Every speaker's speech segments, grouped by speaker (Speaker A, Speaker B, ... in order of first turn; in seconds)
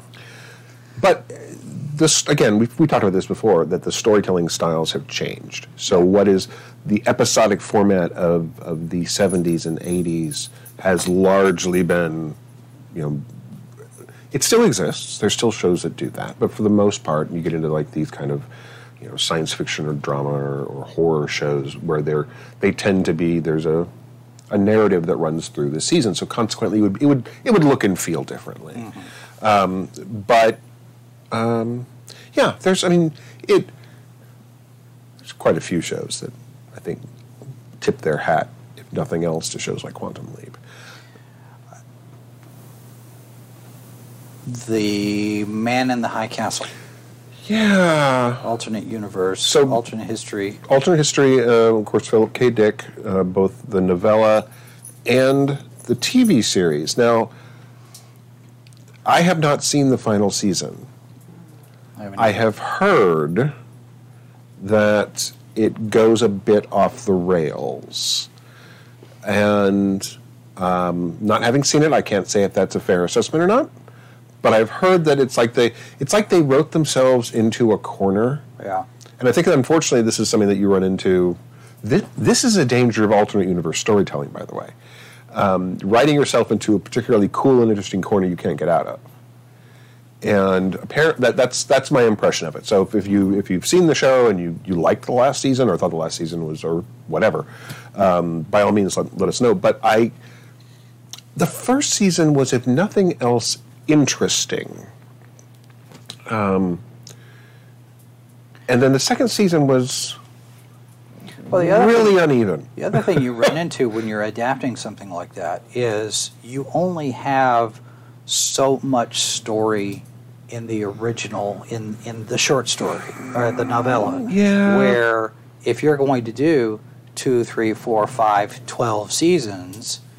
Speaker A: 1.0-12.4, 12.9-13.3, 14.3-18.5, 19.0-23.9, 24.5-30.6, 31.3-33.7, 35.2-37.0, 37.8-40.6, 47.5-48.5, 49.5-49.8, 50.6-54.5, 55.0-57.3, 59.0-60.9, 62.2-63.5, 64.6-68.3, 69.2-73.7, 74.4-78.5, 79.2-84.7, 85.3-89.0, 90.2-100.1, 101.3-104.9, 106.3-106.8, 108.7-110.2, 111.5-113.2, 124.1-125.0
Speaker B: 44.5-46.7, 48.4-50.6, 62.0-62.4, 78.6-78.8, 111.5-130.0